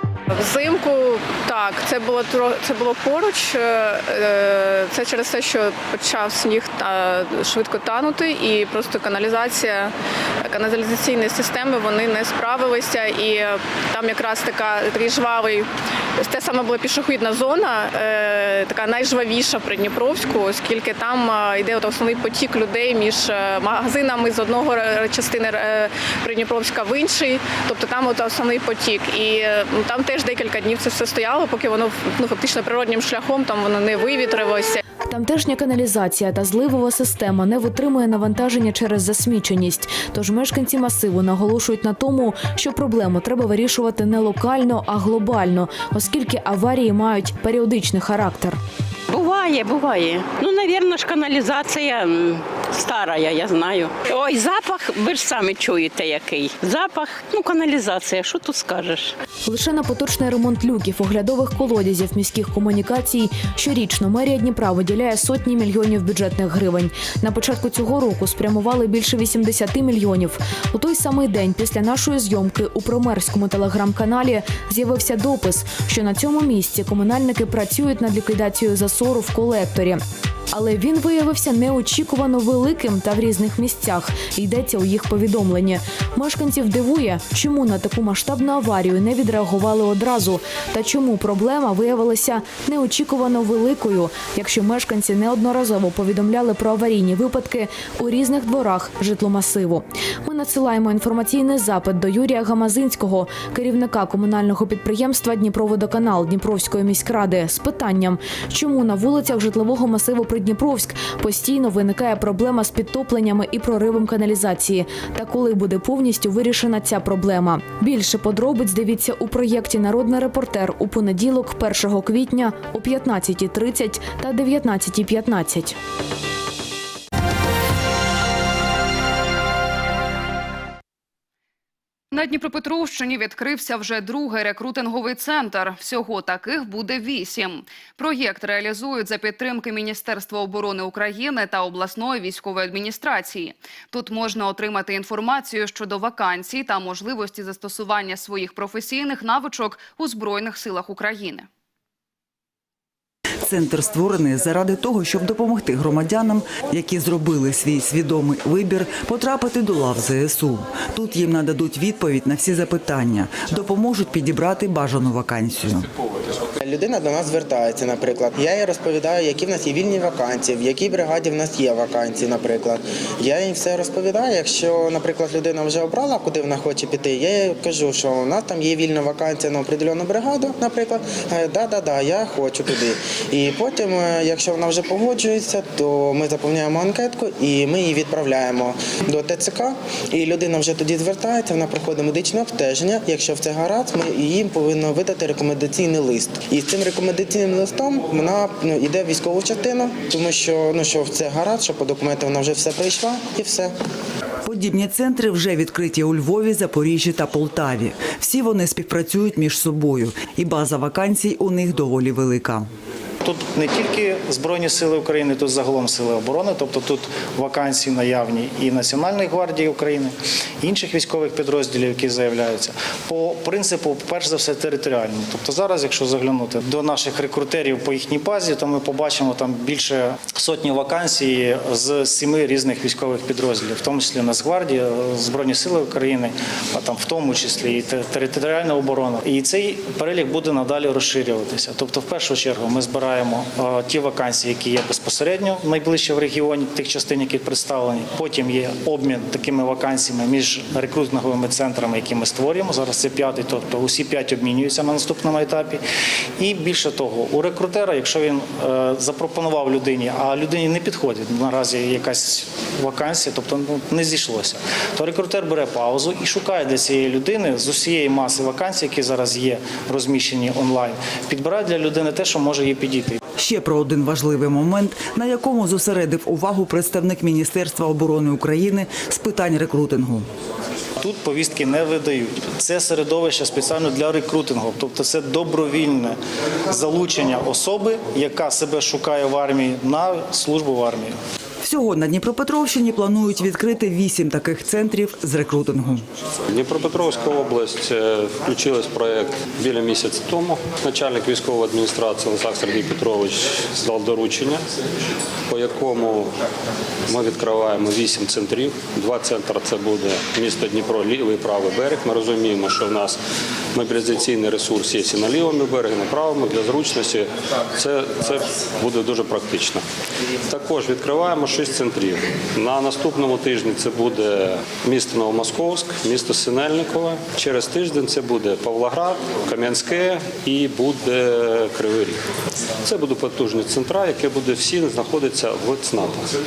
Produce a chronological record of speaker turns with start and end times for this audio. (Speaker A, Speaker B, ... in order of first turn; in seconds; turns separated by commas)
Speaker A: 0.3-34.8, Speaker B: 35.1-48.6, Speaker C: 49.1-59.1, Speaker B: 59.5-125.8, Speaker D: 132.1-151.5, Speaker E: 153.4-165.9, Speaker F: 166.6-203.7, Speaker E: 204.4-212.7, Speaker G: 213.2-255.8, Speaker G: 256.4-273.2, Speaker E: 273.4-280.3, Speaker G: 281.0-286.2, Speaker G: 286.7-291.2, Speaker E: 291.6-296.0, Speaker H: 296.5-304.6, Speaker H: 305.5-306.3, Speaker H: 307.1-313.2, Speaker H: 313.7-319.8, Speaker H: 320.5-332.2, Speaker H: 332.8-336.3